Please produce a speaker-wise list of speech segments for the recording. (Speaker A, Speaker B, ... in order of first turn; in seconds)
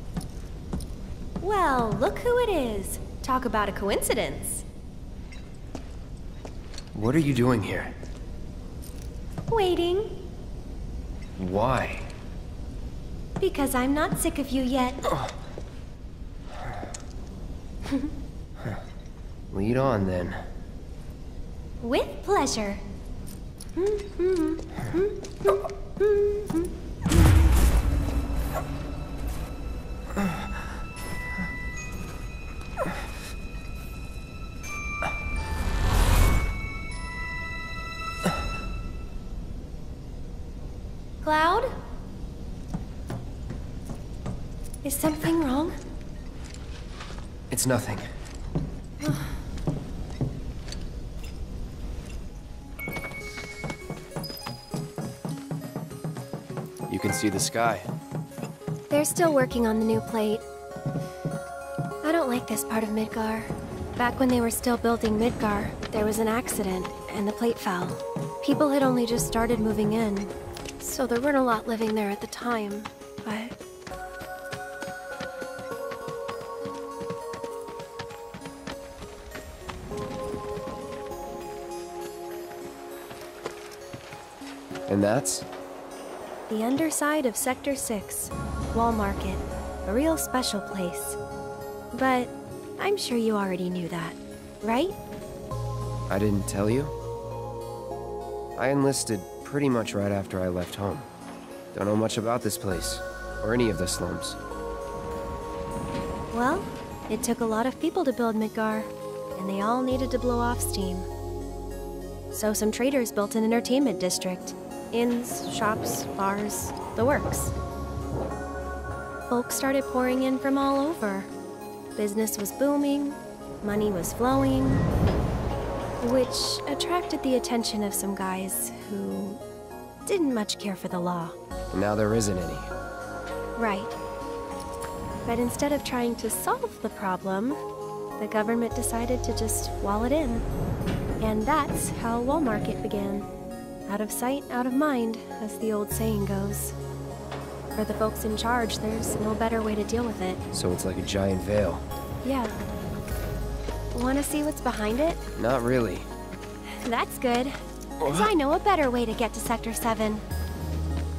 Speaker A: 1.4-4.6, 9.5-10.2, 13.4-15.0, 21.8-22.8, 23.8-26.7, 41.2-41.7, 44.8-45.7, 49.0-49.3, 58.9-60.4, 62.0-73.5, 86.5-91.2, 91.9-95.0, 106.3-111.1, 112.3-117.5, 119.3-121.3, 122.0-124.8, 126.0-129.4, 130.0-131.3, 133.6-133.9, 135.2-137.6, 138.2-140.4, 141.2-143.3, 143.9-146.8, 147.7-150.4, 152.2-152.6, 153.9-155.2, 156.7-160.2
Speaker B: 6.9-7.9, 11.4-12.1, 19.5-20.4, 47.5-48.0, 56.9-57.9, 84.9-85.5, 96.1-96.9, 98.5-101.1, 101.7-104.4, 131.7-132.7, 150.5-151.8, 155.4-156.1, 158.0-158.3